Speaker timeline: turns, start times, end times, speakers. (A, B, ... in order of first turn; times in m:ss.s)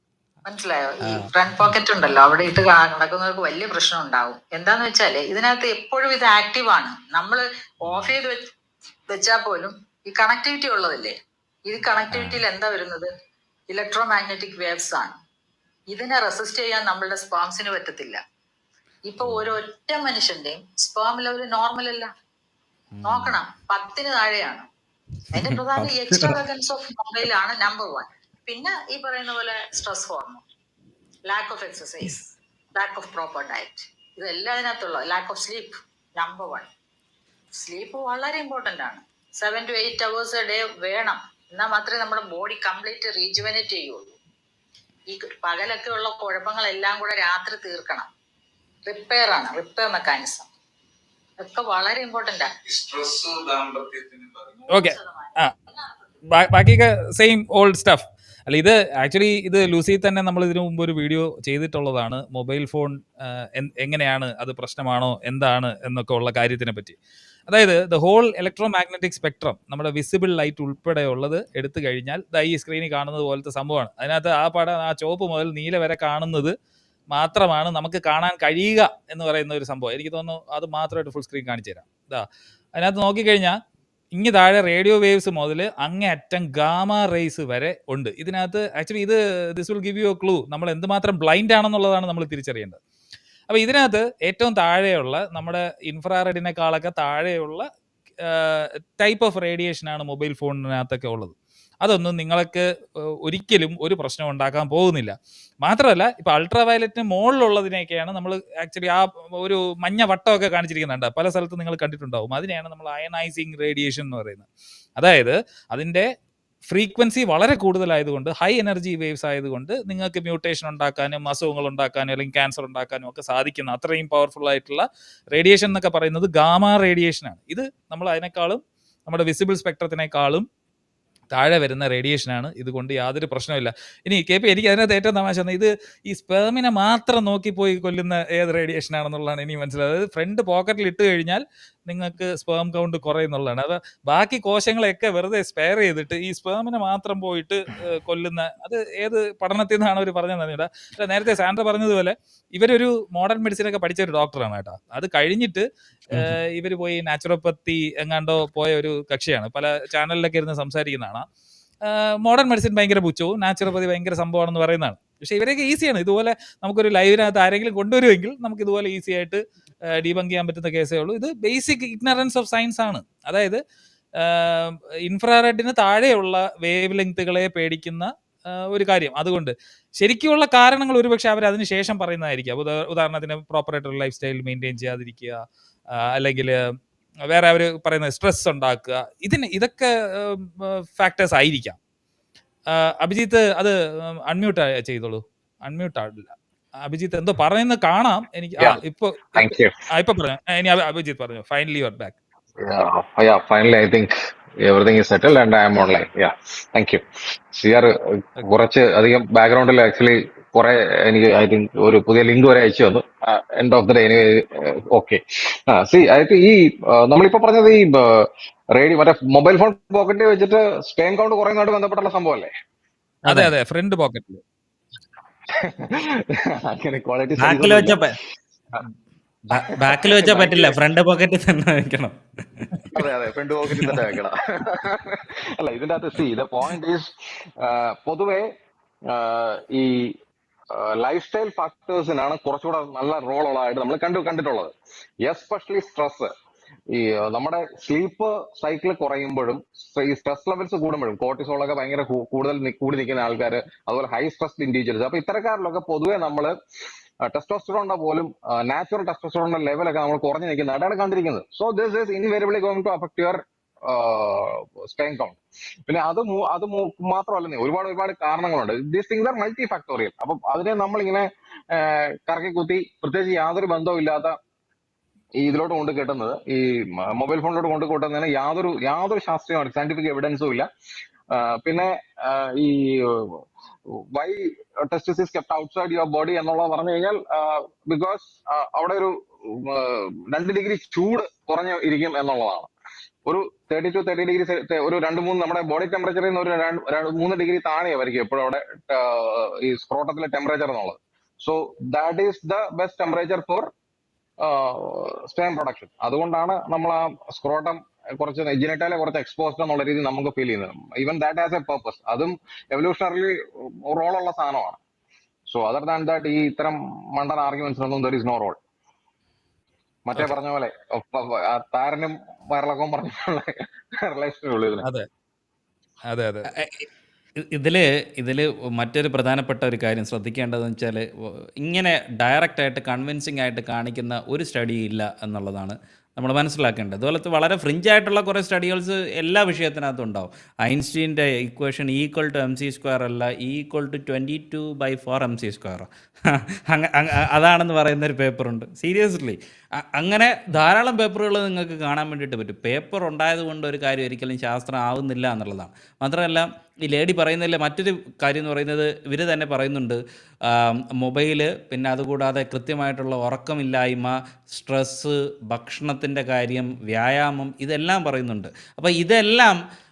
0:00.4-0:08.5 A
0:01.0-0:01.8 B
0:09.1-0:11.2 A
0:11.7-0:13.1 A
0:12.1-0:12.4 B
0:13.7-0:15.2 A
0:15.9-0:18.2 A
0:19.1-0:22.1 A
0:19.2-0:19.6 B
0:22.9-0:23.4 B
0:23.0-0:24.7 A
0:25.3-0:30.4 A
0:25.5-0:26.4 B
0:31.3-0:36.7 A
0:37.6-0:44.2 A
0:45.1-0:48.1 A
0:48.8-0:50.5 A
0:51.4-0:52.5 A
0:52.7-0:55.5 C
0:54.5-0:55.9 A
0:56.3-1:07.0 C
1:07.5-1:16.5 C
1:17.1-1:22.2 C
1:22.8-1:23.6 C
1:24.2-1:32.8 C
1:33.5-1:37.7 C
1:38.2-1:42.7 C
1:43.2-1:56.1 C
1:56.6-2:10.5 C
2:11.3-2:41.3 C
2:41.9-2:53.6 C
2:54.2-3:05.4 C
3:06.2-3:06.8 C
3:07.3-3:11.8 C
3:12.7-3:22.2 C
3:19.4-3:19.7 D
3:22.6-3:27.0 D
3:27.5-3:42.5 D
3:43.3-3:43.5 B
3:43.3-3:44.4 C
3:45.6-3:48.0 D
3:47.4-3:48.2 B
3:49.5-3:52.7 B
3:50.0-3:50.8 D
3:53.0-3:58.5 D
3:53.7-3:54.1 B
3:59.1-4:00.1 D
4:00.8-4:04.7 D
4:05.2-4:06.3 D
4:06.9-4:16.5 D
4:17.2-4:34.4 D
4:35.4-4:40.7 D
4:41.3-4:43.4 D
4:44.1-4:52.7 D
4:53.3-5:03.7 D
5:04.4-5:14.8 D
5:15.5-5:18.6 D
5:20.1-5:24.8 D
5:26.1-5:26.5 C
5:27.5-5:31.1 B
5:31.6-5:49.4 B
5:50.0-6:09.6 B